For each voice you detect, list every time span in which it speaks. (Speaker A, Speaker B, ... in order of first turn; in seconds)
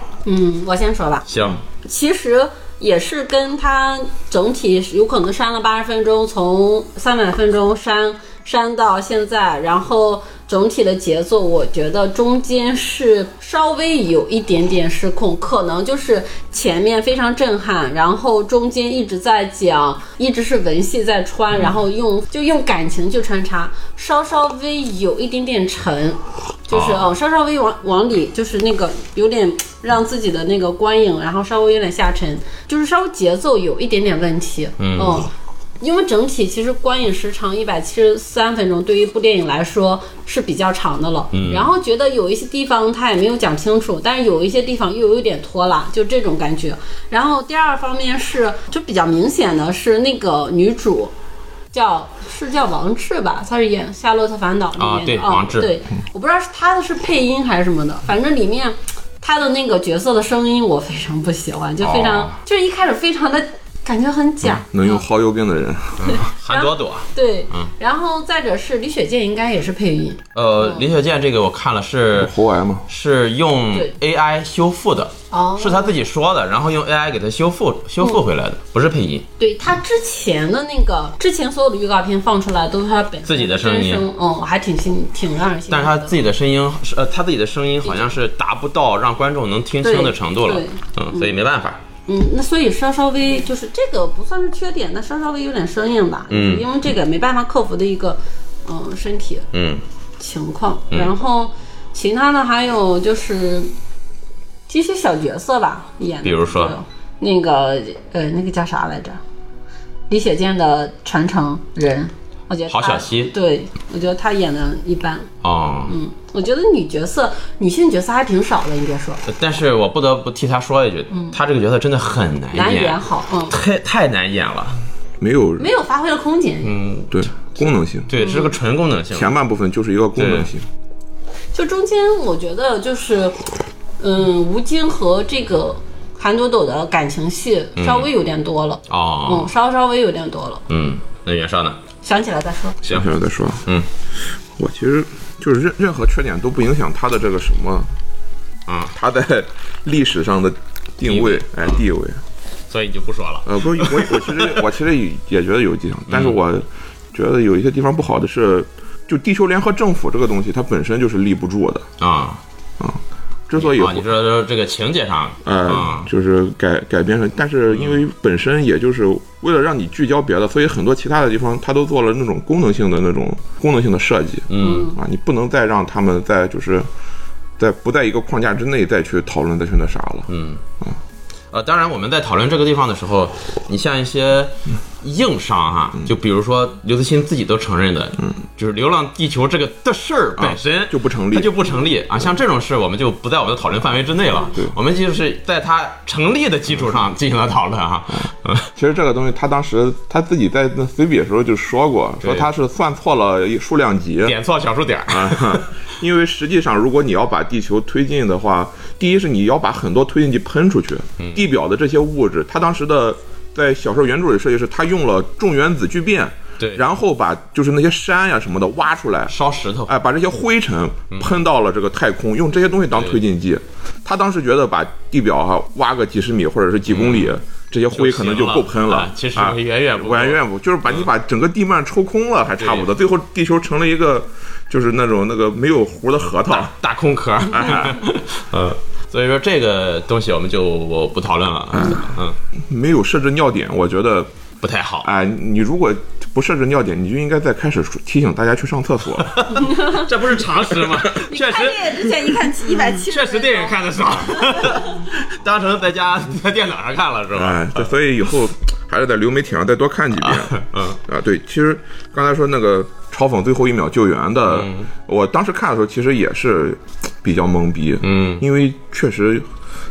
Speaker A: 0.2-1.3, 1.8-51.1, 51.7-65.0, 66.1-70.9, 75.3-76.0, 79.4-86.2, 87.8-88.1, 89.8-91.4, 92.1-99.5, 100.2-103.7, 104.7-109.2, 110.1-115.3, 115.9-119.2, 121.1-121.4, 122.5-123.6, 125.6-126.8, 128.2-128.6, 131.5-140.6, 142.0-142.8, 174.6-175.0, 249.5-250.1, 251.1-255.1
Speaker B: 1.3-1.6, 26.7-27.1, 34.8-35.2, 41.3-41.7, 54.8-55.8, 61.8-62.4, 66.0-67.7, 70.3-72.3, 72.9-79.3, 83.3-84.1, 85.7-91.8, 96.3-96.7, 99.5-99.8, 106.2-106.8, 112.7-113.3, 115.4-116.0, 119.3-124.8, 126.6-129.3, 130.2-130.5, 137.8-138.1, 138.9-139.5, 140.7-141.8, 148.7-148.9, 151.1-151.8, 152.7-154.7, 156.1-156.4, 162.0-162.4, 163.6-166.1, 167.7-168.0, 174.5-174.9, 180.3-180.6, 181.5-198.7, 202.2-202.5, 204.2-205.7, 216.6-216.8, 219.3-219.9, 221.1-221.4, 222.9-223.2, 226.9-227.4, 227.9-231.1, 232.6-232.9, 236.5-242.4, 244.6-245.1, 249.3-257.9, 260.2-261.0, 264.5-264.9, 268.0-268.4
Speaker C: 64.7-66.2, 72.2-72.9, 125.2-125.7, 127.1-128.1, 129.1-130.7, 142.8-143.7, 144.6-147.9, 148.9-152.2, 153.5-161.9, 162.8-164.1, 165.4-176.9, 177.6-180.3, 190.4-191.5, 198.8-204.4, 205.1-219.3, 219.9-236.8, 237.5-238.0, 241.7-242.1, 242.7-244.3, 245.0-249.4, 257.3-269.5